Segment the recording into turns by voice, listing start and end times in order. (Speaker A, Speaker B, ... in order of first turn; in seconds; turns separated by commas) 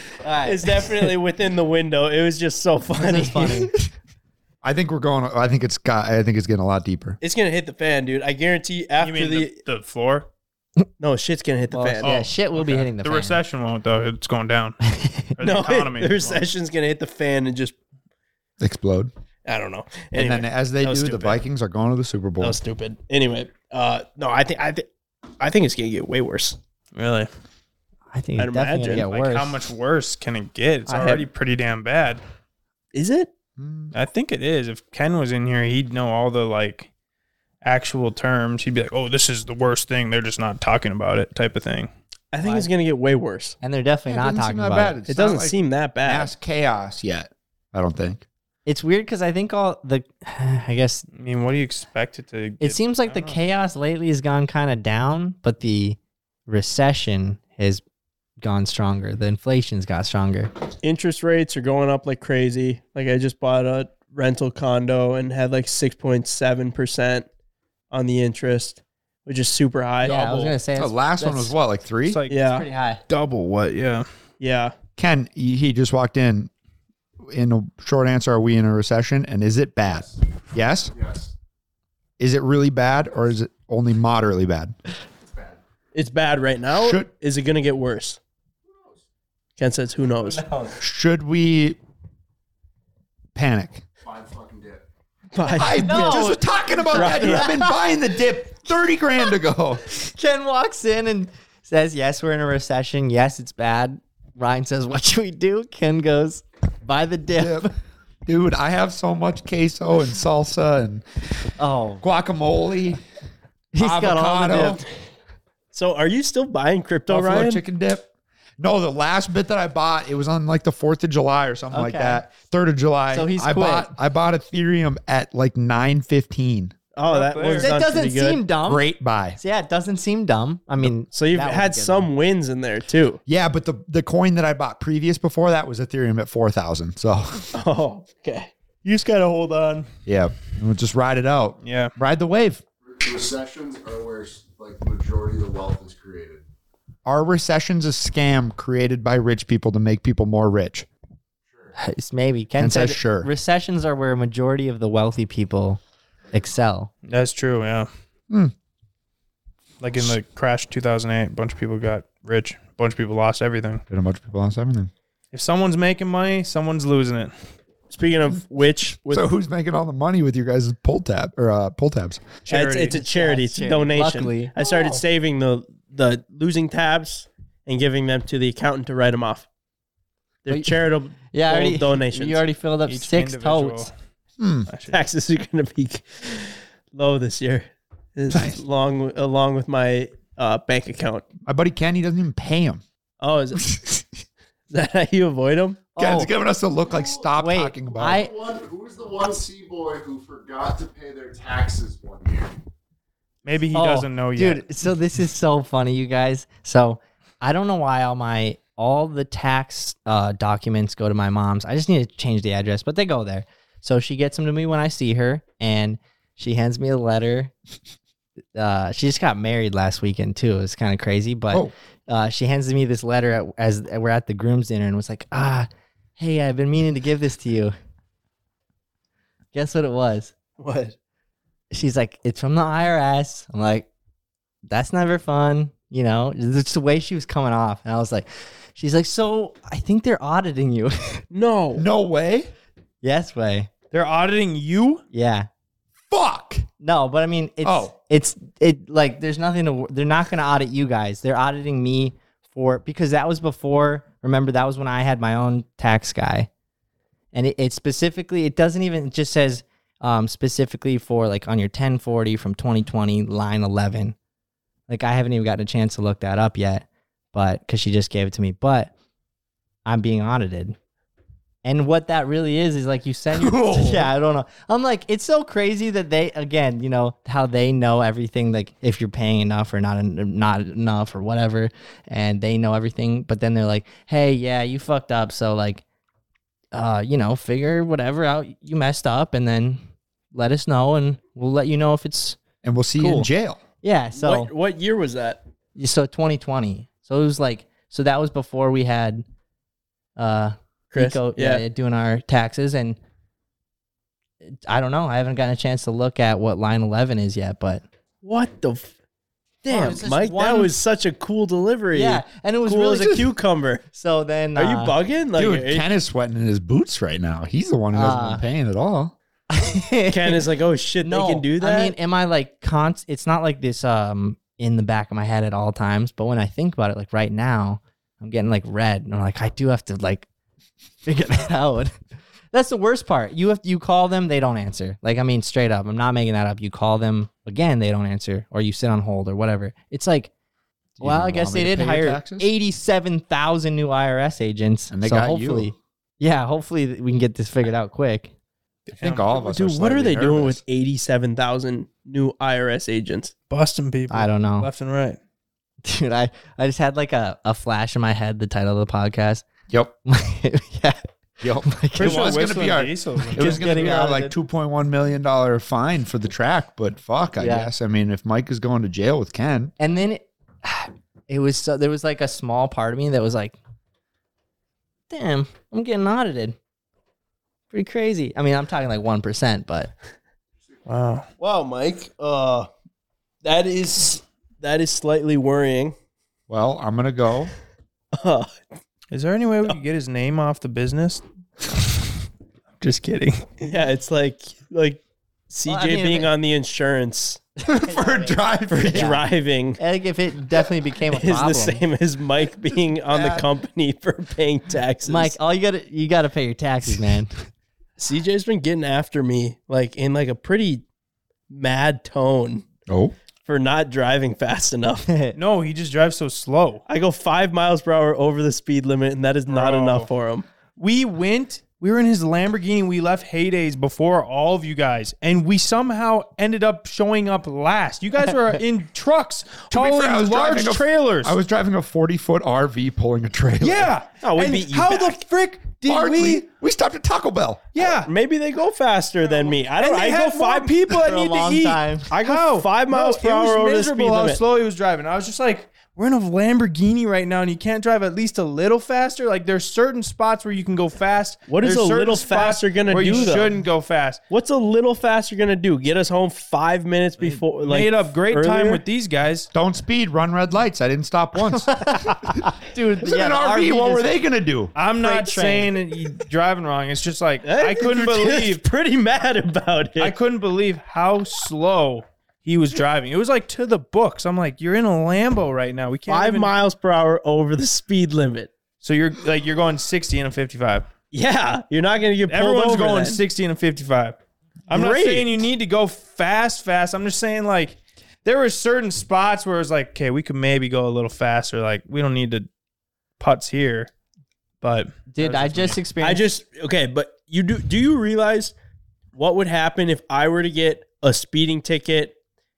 Speaker A: 0.2-0.8, Speaker B: 0.4-3.7, Speaker A: 3.0-3.7, Speaker C: 4.6-7.2, Speaker B: 7.2-9.6, Speaker D: 9.0-10.3, Speaker B: 11.0-12.1, Speaker A: 11.7-13.4, Speaker D: 12.0-14.8, Speaker A: 14.9-15.3, Speaker D: 15.4-16.5, Speaker B: 15.4-17.8, Speaker C: 18.6-19.1, Speaker B: 19.5-21.4, Speaker C: 20.1-22.6, Speaker B: 22.4-24.9, Speaker B: 25.4-26.6, Speaker D: 27.0-27.3, Speaker A: 28.1-29.6, Speaker B: 28.4-29.1, Speaker D: 29.0-32.2, Speaker B: 30.9-31.3, Speaker B: 32.9-33.3, Speaker C: 33.6-33.9, Speaker D: 33.9-36.9, Speaker D: 37.6-41.9, Speaker B: 42.3-43.6, Speaker A: 43.6-45.0, Speaker C: 44.1-48.2, Speaker B: 45.1-46.3, Speaker A: 48.7-51.1, Speaker D: 51.1-53.4, Speaker A: 52.6-57.8, Speaker A: 58.4-60.5, Speaker B: 60.8-67.3, Speaker B: 67.9-70.6, Speaker A: 70.0-71.5, Speaker C: 70.8-72.2, Speaker D: 72.1-72.3, Speaker B: 72.3-72.7, Speaker A: 72.5-73.0, Speaker D: 73.1-74.1, Speaker B: 74.4-74.7, Speaker C: 75.0-76.5, Speaker C: 77.2-80.9, Speaker E: 79.8-80.1, Speaker E: 80.9-81.3, Speaker C: 82.2-84.8, Speaker E: 85.2-85.6, Speaker B: 86.0-88.2, Speaker C: 86.8-87.1, Speaker E: 88.7-89.0, Speaker B: 89.6-90.5, Speaker A: 90.2-90.8, Speaker C: 90.8-91.8, Speaker C: 93.3-93.8, Speaker E: 94.0-94.8, Speaker B: 95.3-96.3, Speaker C: 95.5-99.9, Speaker A: 95.7-97.8, Speaker B: 96.9-97.6, Speaker A: 100.0-107.7, Speaker C: 107.4-107.7, Speaker C: 108.3-111.0, Speaker A: 111.6-112.0, Speaker C: 112.0-113.0, Speaker A: 113.7-114.8, Speaker C: 113.8-114.8, Speaker B: 115.7-117.6, Speaker C: 117.1-118.1, Speaker C: 118.6-126.8, Speaker A: 121.7-122.2, Speaker A: 123.1-123.9, Speaker B: 126.9-128.4, Speaker D: 127.1-127.7, Speaker A: 127.6-128.9, Speaker C: 128.7-129.4, Speaker A: 129.4-132.1, Speaker B: 131.1-133.2, Speaker C: 133.3-137.5, Speaker B: 137.5-139.8, Speaker C: 140.1-142.6, Speaker D: 141.6-141.9, Speaker E: 142.9-146.4, Speaker C: 147.1-150.9, Speaker E: 151.5-151.7, Speaker A: 151.8-155.8, Speaker C: 152.6-153.3, Speaker A: 156.3-156.9, Speaker D: 157.1-157.9, Speaker D: 159.8-163.8, Speaker C: 163.9-164.9, Speaker D: 165.3-167.3, Speaker B: 167.9-169.3, Speaker C: 169.1-172.3, Speaker D: 172.4-173.0, Speaker B: 172.5-179.5, Speaker A: 172.9-174.8, Speaker B: 180.4-182.4, Speaker A: 180.5-180.7, Speaker A: 181.3-183.9, Speaker D: 182.9-183.9, Speaker C: 184.4-184.7, Speaker D: 184.7-185.0, Speaker B: 184.9-191.2, Speaker C: 188.3-188.6, Speaker C: 191.4-192.8, Speaker B: 193.2-193.7, Speaker C: 193.7-194.0, Speaker B: 194.7-195.9, Speaker A: 195.9-196.3, Speaker C: 196.0-198.2, Speaker E: 196.9-197.3, Speaker A: 197.4-198.3, Speaker E: 197.9-202.6, Speaker D: 203.4-204.6, Speaker A: 203.7-217.5, Speaker A: 218.6-227.7, Speaker A: 229.5-230.3, Speaker B: 230.6-230.9, Speaker A: 231.7-233.9, Speaker A: 234.7-241.2, Speaker B: 241.3-241.8, Speaker C: 241.8-242.5, Speaker A: 243.0-243.7, Speaker D: 243.9-245.0, Speaker A: 245.1-245.5, Speaker C: 246.1-246.7, Speaker A: 246.8-256.5, Speaker C: 247.6-247.9, Speaker A: 257.3-264.1, Speaker A: 264.9-268.9, Speaker A: 269.9-270.8, Speaker A: 271.6-285.8, Speaker C: 273.3-274.1, Speaker A: 286.7-289.8, Speaker A: 290.3-292.4, Speaker C: 292.6-293.6, Speaker A: 293.0-293.3, Speaker A: 293.8-294.5, Speaker B: 294.1-295.4, Speaker A: 295.8-299.2, Speaker A: 300.2-303.0, Speaker B: 300.9-301.6, Speaker A: 304.7-307.8, Speaker B: 308.2-308.9, Speaker B: 309.6-313.8, Speaker A: 309.7-310.7, Speaker A: 311.9-313.3, Speaker A: 313.9-314.9, Speaker B: 314.6-315.9, Speaker C: 315.4-319.1, Speaker A: 317.9-318.4, Speaker A: 319.5-320.4, Speaker B: 320.1-322.0, Speaker A: 321.0-330.3, Speaker A: 331.1-331.9, Speaker A: 332.5-340.3, Speaker C: 341.0-342.5, Speaker A: 341.0-348.3, Speaker C: 344.9-345.7, Speaker D: 348.9-349.3, Speaker C: 348.9-350.6, Speaker B: 349.4-353.3, Speaker D: 353.5-355.2, Speaker A: 354.1-354.7, Speaker A: 355.9-359.4, Speaker A: 360.1-362.4, Speaker C: 361.4-369.7, Speaker D: 362.0-363.9, Speaker B: 363.4-364.3, Speaker A: 363.4-364.3, Speaker A: 367.4-367.7, Speaker A: 369.8-373.6, Speaker A: 375.1-376.6, Speaker A: 377.7-379.9, Speaker D: 380.9-381.3, Speaker B: 381.4-382.7, Speaker B: 383.4-385.9, Speaker C: 386.5-387.5, Speaker B: 388.1-388.6, Speaker D: 389.1-392.1, Speaker D: 392.8-393.6, Speaker B: 393.6-397.4, Speaker A: 395.7-396.3, Speaker C: 397.6-399.2, Speaker A: 397.7-399.2, Speaker B: 398.7-399.8, Speaker A: 399.8-401.8, Speaker B: 401.1-405.4, Speaker C: 403.1-403.5, Speaker A: 405.1-407.3, Speaker B: 408.0-410.8, Speaker B: 411.5-412.6, Speaker C: 412.9-413.1, Speaker B: 413.5-415.1, Speaker A: 415.1-415.4, Speaker D: 415.4-416.8, Speaker B: 416.9-420.4, Speaker D: 419.5-420.1, Speaker D: 420.8-431.4, Speaker C: 429.7-433.9, Speaker D: 433.6-436.4, Speaker B: 434.2-435.2, Speaker C: 435.8-437.6, Speaker D: 437.7-438.1, Speaker B: 437.9-440.8, Speaker D: 439.4-454.2, Speaker A: 440.9-442.1, Speaker B: 442.1-444.4, Speaker B: 451.5-453.5, Speaker B: 454.3-458.8, Speaker D: 457.6-459.5, Speaker C: 459.5-464.7, Speaker A: 461.5-464.1, Speaker D: 464.8-468.6, Speaker A: 465.0-465.7, Speaker B: 467.4-470.1, Speaker D: 470.0-476.5, Speaker B: 476.1-478.5, Speaker D: 478.8-480.9, Speaker B: 481.1-483.2, Speaker D: 482.3-484.2, Speaker D: 484.7-492.5, Speaker B: 484.7-485.4, Speaker D: 493.2-493.9, Speaker D: 494.6-495.8, Speaker A: 495.1-496.3, Speaker B: 496.0-498.6, Speaker B: 499.1-502.2